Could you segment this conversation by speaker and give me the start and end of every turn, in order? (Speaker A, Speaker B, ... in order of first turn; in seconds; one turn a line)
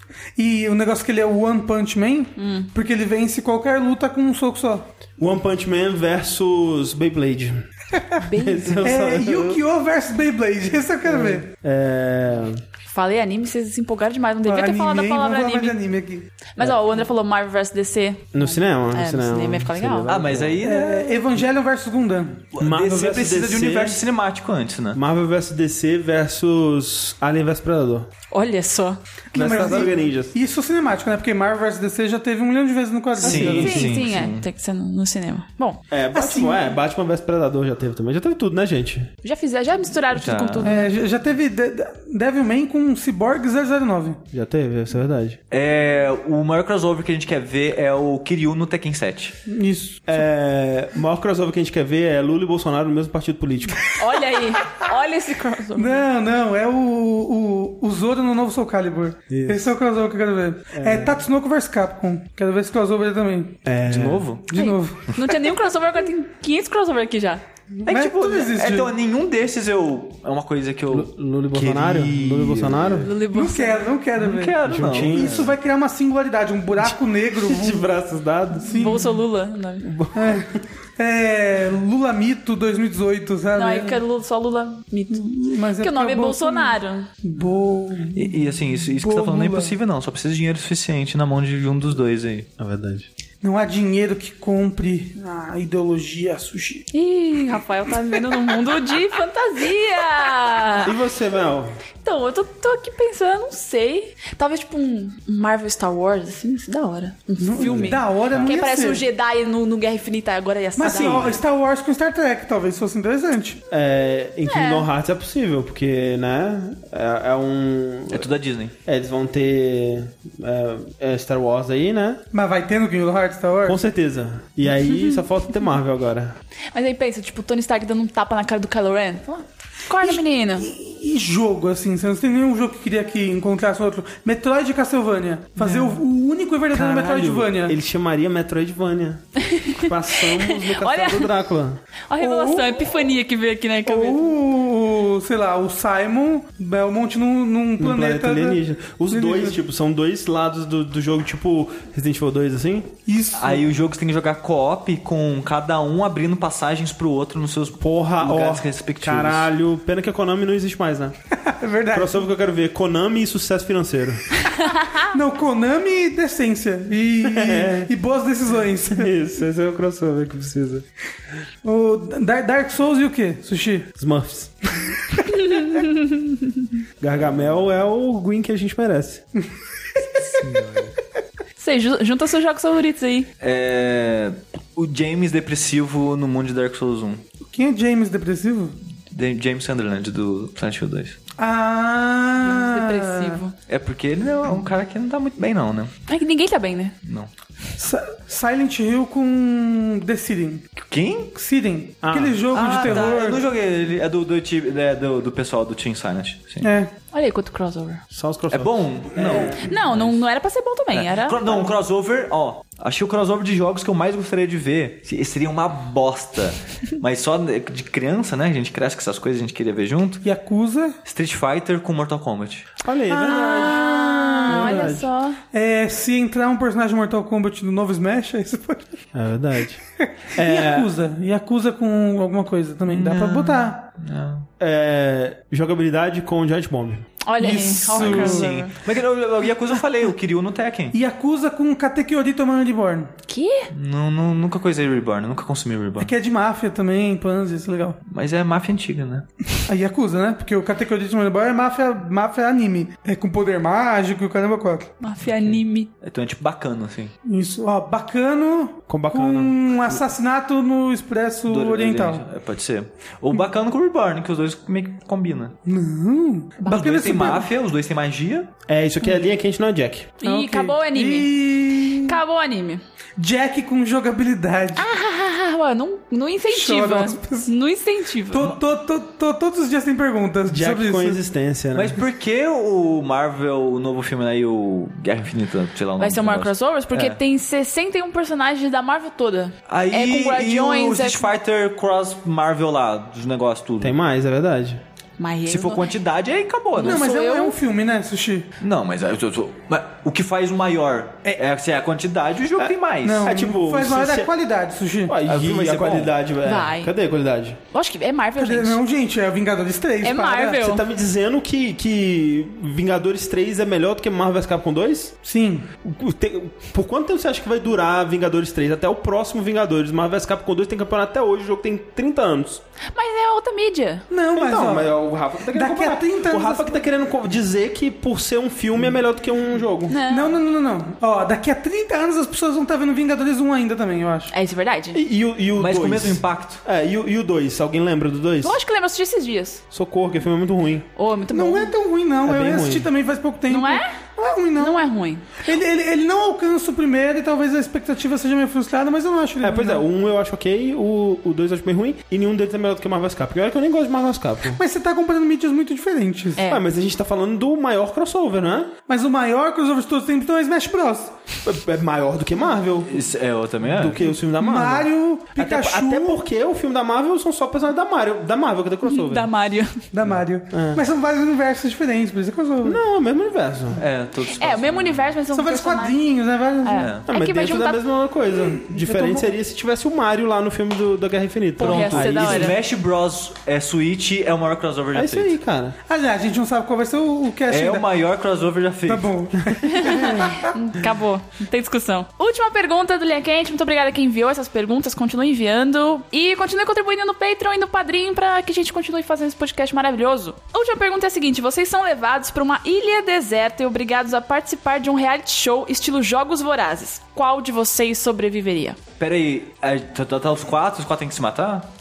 Speaker A: 0.4-4.9
Speaker B: 2.4-2.7
Speaker C: 5.2-7.6
Speaker B: 8.2-8.9
Speaker C: 8.3-9.6
Speaker A: 8.8-11.5
Speaker C: 11.1-12.6
Speaker B: 12.9-15.8
Speaker A: 14.4-16.3
Speaker B: 16.5-20.1
Speaker C: 18.3-20.6
Speaker D: 20.1-21.1
Speaker A: 20.6-22.5
Speaker D: 22.5-25.0
Speaker C: 22.6-24.0
Speaker C: 24.9-28.1
Speaker B: 28.3-29.9
Speaker A: 29.3-33.7
Speaker C: 29.3-30.3
Speaker C: 33.2-34.1
Speaker D: 33.2-34.4
Speaker B: 33.4-35.8
Speaker C: 35.9-39.1
Speaker A: 36.1-36.6
Speaker B: 39.2-40.9
Speaker D: 40.1-40.7
Speaker A: 40.6-44.2
Speaker C: 44.3-45.4
Speaker D: 45.5-49.4
Speaker A: 49.5-50.2
Speaker C: 50.1-53.9
Speaker B: 54.0-56.0
Speaker A: 55.7-63.6
Speaker C: 59.3-59.7
Speaker C: 60.7-61.2
Speaker C: 63.6-64.3
Speaker D: 63.9-64.4
Speaker A: 64.5-65.0
Speaker B: 64.5-67.4
Speaker A: 67.8-68.9
Speaker D: 67.8-73.1
Speaker C: 70.9-73.1
Speaker B: 73.0-73.9
Speaker A: 73.3-77.9
Speaker D: 74.2-75.4
Speaker C: 74.7-75.5
Speaker C: 76.8-79.0
Speaker A: 78.6-79.0
Speaker B: 78.7-79.9
Speaker C: 79.8-80.5
Speaker A: 80.1-84.0
Speaker B: 83.5-87.1
Speaker A: 85.1-88.3
Speaker D: 88.1-92.5
Speaker A: 89.0-89.7
Speaker C: 92.6-93.1
Speaker A: 93.4-96.9
Speaker B: 96.9-100.9
Speaker C: 100.8-101.7
Speaker B: 102.0-111.3
Speaker A: 107.4-109.0
Speaker C: 107.6-108.0
Speaker A: 110.8-113.6
Speaker C: 110.8-111.3
Speaker C: 113.7-118.3
Speaker B: 114.4-114.9
Speaker D: 118.1-118.7
Speaker C: 118.8-122.2
Speaker A: 122.3-123.8
Speaker C: 123.7-126.3
Speaker B: 124.8-125.2
Speaker B: 126.7-130.7
Speaker A: 130.0-137.8
Speaker B: 135.6-135.9
Speaker C: 136.7-141.8
Speaker B: 139.4-141.3
Speaker B: 142.1-144.2
Speaker A: 142.2-142.8
Speaker A: 143.8-148.6
Speaker C: 147.8-152.9
Speaker A: 149.1-149.6
Speaker A: 153.1-153.6
Speaker D: 153.3-159.5
Speaker C: 157.8-161.1
Speaker A: 161.4-162.2
Speaker C: 161.9-164.3
Speaker A: 164.9-169.1
Speaker C: 167.2-167.9
Speaker C: 168.9-170.8
Speaker A: 171.6-173.9
Speaker C: 174.0-174.5
Speaker A: 175.0-175.4
Speaker B: 175.3-176.7
Speaker C: 177.0-179.2
Speaker D: 180.2-180.9
Speaker B: 181.6-183.3
Speaker D: 183.4-187.2
Speaker A: 187.5-188.8
Speaker D: 189.1-191.2
Speaker A: 191.4-193.4
Speaker B: 192.4-193.5
Speaker D: 193.7-195.9
Speaker B: 196.1-196.9
Speaker A: 197.8-200.6
Speaker D: 200.8-201.3
Speaker A: 201.3-203.4
Speaker C: 202.0-202.4
Speaker D: 202.5-206.7
Speaker A: 206.6-206.9
Speaker B: 207.1-208.0
Speaker C: 208.1-209.7
Speaker D: 208.5-210.2
Speaker B: 209.3-211.7
Speaker D: 210.9-220.2
Speaker A: 220.2-220.9
Speaker D: 221.1-222.7
Speaker C: 222.8-225.1
Speaker A: 223.1-224.9
Speaker B: 223.3-225.4
Speaker A: 225.5-228.9
Speaker C: 229.1-229.8
Speaker A: 230.0-233.8
Speaker C: 230.3-230.9
Speaker D: 232.9-234.5
Speaker C: 234.6-237.1
Speaker B: 237.2-238.7
Speaker A: 237.4-238.5
Speaker D: 237.9-241.0
Speaker A: 240.9-243.1
Speaker B: 243.3-243.7
Speaker D: 243.7-246.1
Speaker A: 246.0-248.0
Speaker D: 248.1-249.2
Speaker A: 249.7-254.9
Speaker B: 255.0-255.9
Speaker D: 255.2-257.1
Speaker A: 257.2-262.2
Speaker C: 258.9-259.5
Speaker D: 261.5-265.6
Speaker A: 265.6-267.5
Speaker B: 266.6-266.9
Speaker D: 266.6-268.5
Speaker C: 268.7-270.2
Speaker B: 270.2-271.3
Speaker A: 270.2-272.2
Speaker B: 271.9-272.8
Speaker A: 273.2-274.9
Speaker B: 274.8-278.5
Speaker A: 276.5-277.5
Speaker A: 278.3-281.2
Speaker C: 280.5-282.0
Speaker D: 281.7-287.2
Speaker B: 286.0-291.3
Speaker D: 289.7-293.9
Speaker C: 293.8-294.8
Speaker B: 295.2-295.9
Speaker D: 295.5-297.1
Speaker B: 296.8-297.6
Speaker A: 296.8-298.5
Speaker D: 298.6-303.3
Speaker C: 302.6-304.3
Speaker A: 303.0-305.2
Speaker C: 305.1-307.6
Speaker D: 305.2-306.1
Speaker B: 306.4-306.9
Speaker B: 307.7-308.8
Speaker A: 308.4-310.6
Speaker B: 310.0-310.8
Speaker C: 310.6-315.1
Speaker A: 315.2-315.7
Speaker C: 315.8-322.6
Speaker B: 322.9-324.1
Speaker A: 324.1-324.9
Speaker C: 324.3-330.0
Speaker A: 325.5-326.8
Speaker B: 329.9-330.3
Speaker A: 330.1-334.3
Speaker B: 334.3-335.0
Speaker C: 334.9-338.6
Speaker D: 335.6-336.6
Speaker B: 338.4-339.6
Speaker C: 339.7-340.9
Speaker B: 340.9-341.7
Speaker A: 341.3-344.8
Speaker C: 342.2-342.9
Speaker B: 343.5-344.0
Speaker B: 344.6-345.4
Speaker A: 345.4-349.8
Speaker C: 349.4-354.6
Speaker A: 354.5-356.4
Speaker B: 356.4-356.6
Speaker C: 356.5-358.7
Speaker A: 358.9-361.2
Speaker C: 361.4-363.1
Speaker D: 362.9-364.1
Speaker C: 363.6-369.3
Speaker A: 364.4-366.2
Speaker B: 368.8-369.8
Speaker A: 369.9-372.8
Speaker C: 370.5-370.8
Speaker C: 372.6-373.8
Speaker D: 373.8-375.1
Speaker B: 374.4-376.0
Speaker A: 375.3-376.9
Speaker B: 376.6-377.8
Speaker D: 376.8-377.0
Speaker C: 377.1-382.6
Speaker A: 378.4-379.3
Speaker B: 381.6-382.6
Speaker D: 381.6-385.3
Speaker C: 384.9-385.8
Speaker A: 385.9-387.8
Speaker D: 387.5-389.1
Speaker A: 388.9-390.5
Speaker B: 389.6-408.8
Speaker D: 409.0-411.7